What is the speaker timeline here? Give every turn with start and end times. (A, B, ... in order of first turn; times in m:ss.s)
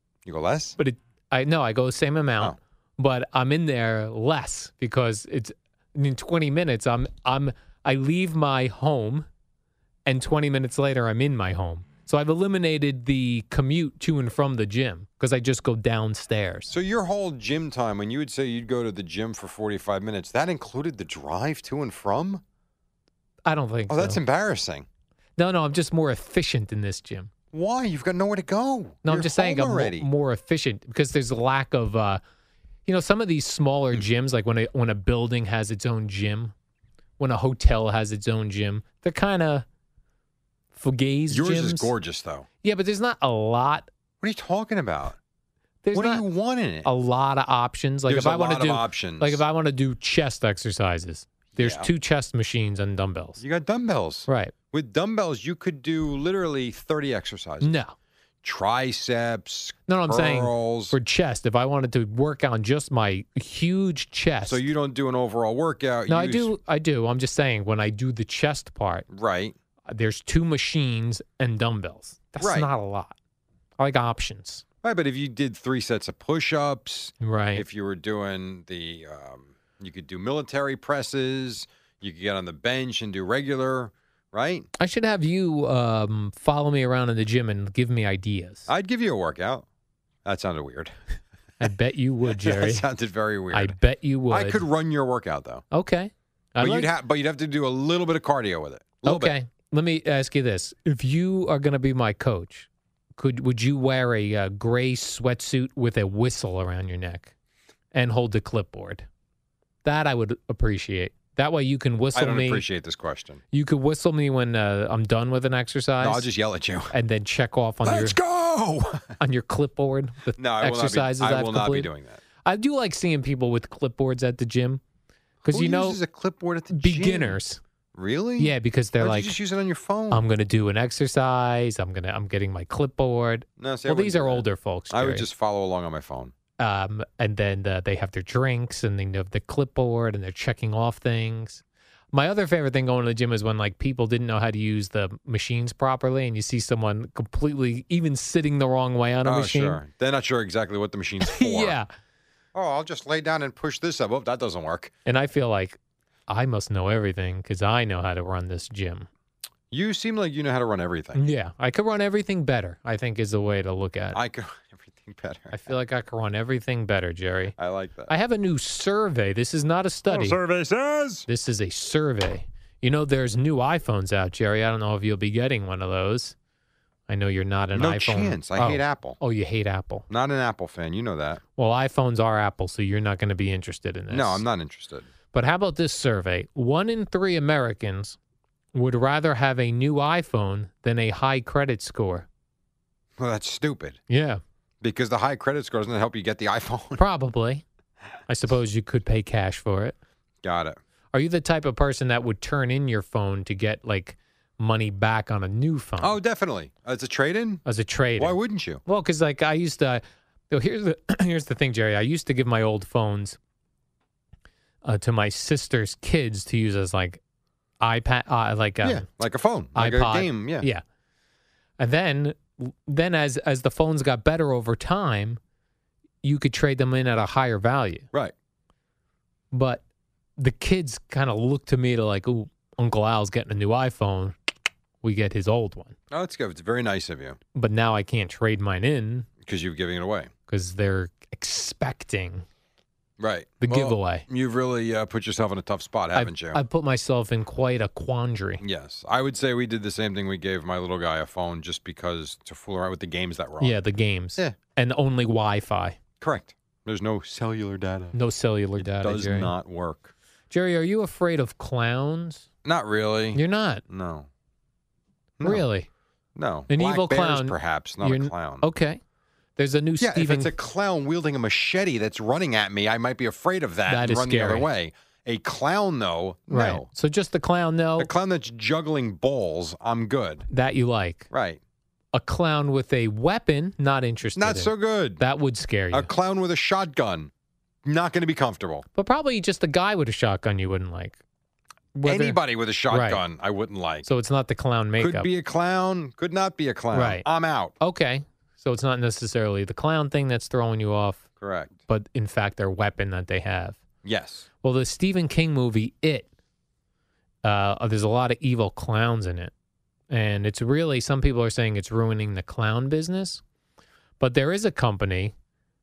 0:00.3-0:00.8 A
0:00.8-0:09.3 B
0:10.1-0:16.7 B
0:16.7-0:22.4 A
0:23.5-0:24.2 B
0:23.9-0:24.9 A
0:25.4-0:27.3 B
0:27.5-0:30.1 A
0:29.0-0:32.2 B
0:32.9-0:36.5 B
0:37.2-0:39.7 B
0:40.8-0:41.9 B
0:41.3-0:42.5 A
0:42.6-0:43.9 B
0:44.2-0:45.2 A
0:45.8-0:46.2 B
0:45.9-0:46.9 A
0:46.8-0:53.4 B
0:48.1-0:49.4 A
0:51.6-0:51.9 A
0:53.4-0:57.8 A
0:54.3-0:54.5 B
0:57.6-0:57.9 B
0:58.4-1:01.0 A
0:59.9-1:04.6 B
1:04.4-1:06.5 A
1:06.1-1:09.0 B
1:09.1-1:09.6 A
1:09.9-1:13.2 B
1:12.4-1:12.7 A
1:13.8-1:14.6 B
1:14.8-1:24.7 A
1:17.2-1:17.6 B
1:24.8-1:28.7 B
1:28.7-1:29.7 A
1:30.2-1:30.9 A
1:31.6-1:32.8 B
1:32.4-1:33.8 A
1:33.5-1:34.6 B
1:34.3-1:35.6 A
1:35.7-1:36.9 B
1:36.6-1:39.3 A
1:39.0-1:47.3 B
1:47.9-1:49.1 B
1:49.8-1:52.6 B
1:52.2-1:53.4 A
1:53.5-1:56.3 B
1:56.0-1:56.9 A
1:56.9-1:58.2 B
1:57.8-1:59.2 A
1:59.2-2:01.9 B
2:00.4-2:02.2 A
2:02.4-2:04.8 B
2:05.4-2:06.0 B
2:05.5-2:07.4 A
2:06.7-2:07.6 B
2:08.0-2:10.2 A
2:08.4-2:09.3 B
2:10.1-2:15.3 B
2:13.6-2:16.3 A
2:16.6-2:21.6 B
2:22.1-2:29.8 B
2:29.2-2:31.8 A
2:31.2-2:31.9 B
2:32.5-2:34.9 A
2:35.1-2:39.1 B
2:39.7-2:41.2 A
2:41.2-2:44.2 B
2:44.1-2:45.6 A
2:45.5-2:47.6 B
2:47.6-2:48.1 A
2:48.1-2:50.4 B
2:50.1-2:51.3 A
2:51.3-2:56.4 B
2:57.1-3:00.1 B
2:57.8-2:59.2 A
3:00.1-3:01.4 A
3:01.6-3:04.4 B
3:04.1-3:05.1 A
3:05.3-3:08.2 B
3:08.7-3:12.3 B
3:13.2-3:14.0 A
3:14.1-3:14.4 B
3:14.8-3:17.0 A
3:17.0-3:17.6 B
3:18.3-3:20.0 B
3:20.4-3:20.8 A
3:21.1-3:26.2 B
3:26.0-3:27.7 A
3:27.7-3:33.4 B
3:28.2-3:28.8 A
3:34.8-3:37.2 B
3:37.8-3:39.0 B
3:38.8-3:40.7 A
3:39.8-3:40.8 B
3:41.8-3:45.4 B
3:46.2-3:48.1 B
3:49.5-3:49.8 B
3:50.4-3:54.4 B
3:55.0-3:56.0 B
3:56.1-3:57.4 A
3:57.6-3:59.3 B
3:59.4-4:00.3 A
4:00.5-4:02.4 B
4:03.2-4:06.6 A
4:03.6-4:04.2 B
4:06.1-4:08.6 B
4:08.6-4:13.8 A
4:13.6-4:16.0 B
4:16.2-4:18.2 A
4:18.1-4:19.5 B
4:18.8-4:20.1 A
4:20.5-4:22.5 B
4:22.6-4:24.3 A
4:23.3-4:23.8 B
4:25.4-4:25.7 A
4:25.4-4:25.9 B
4:26.4-4:28.6 A
4:26.7-4:29.0 B
4:29.6-4:30.5 B
4:30.0-4:36.9 A
4:33.9-4:34.7 B
4:36.5-4:38.1 B
4:38.0-4:40.5 A
4:40.5-4:41.3 B
4:41.3-4:41.6 A
4:42.1-4:46.1 B
4:44.4-4:45.2 A
4:45.9-4:47.3 A
4:47.8-4:48.8 A
4:49.0-4:51.2 B
4:52.0-4:52.4 B
4:52.0-4:54.1 A
4:52.9-4:53.2 B
4:54.0-4:55.3 B
4:55.0-4:57.7 A
4:56.9-4:57.2 B
4:57.8-5:01.2 B
5:01.4-5:01.7 A
5:01.9-5:03.8 B
5:04.0-5:04.5 A
5:04.6-5:06.3 B
5:07.4-5:09.5 B
5:10.1-5:13.4 B
5:14.2-5:15.3 B